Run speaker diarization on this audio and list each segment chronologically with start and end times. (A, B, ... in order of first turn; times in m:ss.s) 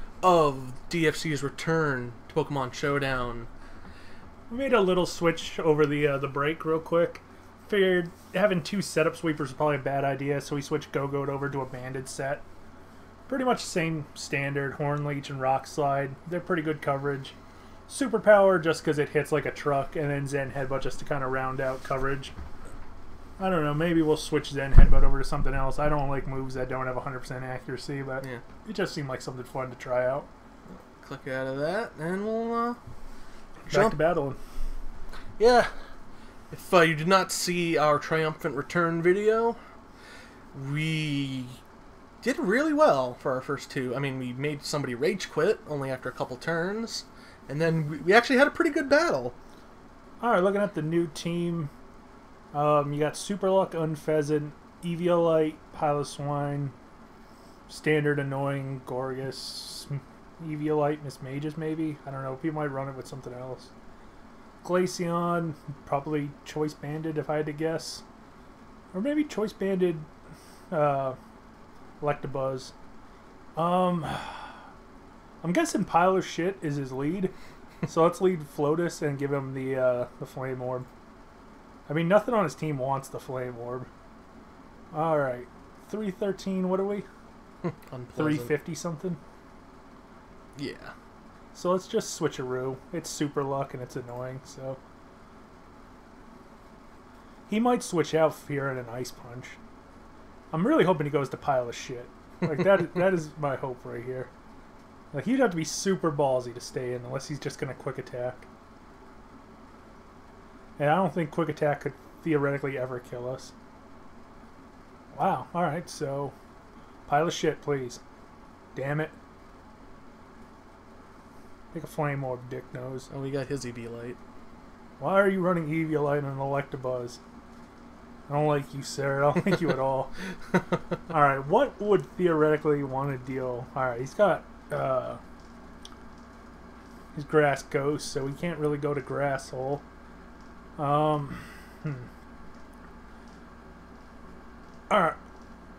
0:00.2-0:03.5 A
0:04.5-0:12.4 B
0:13.3-0:17.4 B
0:17.9-0:22.3 B
0:23.4-0:30.3 B
0:30.7-0:32.8 A
0:33.6-0:34.0 A
0:33.7-0:34.4 B
0:35.4-0:35.7 A
0:36.5-0:39.6 A
0:40.5-0:41.6 A
0:42.2-0:49.4 A
0:50.2-0:51.7 B
0:52.5-0:56.7 B
0:57.7-1:03.7 B
1:04.6-1:08.0 B
1:08.9-1:10.1 B
1:10.7-1:11.2 B
1:12.0-1:12.7 B
1:13.5-1:14.5 B
1:15.4-1:17.3 B
1:17.8-1:20.9 B
1:21.9-1:23.9 B
1:24.9-1:27.0 B
1:27.6-1:28.6 A
1:28.1-1:29.2 B
1:30.6-1:30.9 A
1:31.5-1:34.8 B
1:37.5-1:39.6 B
1:40.5-1:44.3 B
1:45.1-1:48.5 B
1:50.8-1:53.5 B
1:55.1-1:56.3 B
1:57.1-1:58.0 B
1:58.7-1:59.1 B
2:01.7-2:03.1 B
2:03.1-2:04.2 A
2:05.0-2:07.2 B
2:08.3-2:10.1 B
2:11.1-2:15.2 B
2:17.1-2:19.8 B
2:20.8-2:22.1 B
2:24.9-2:25.2 B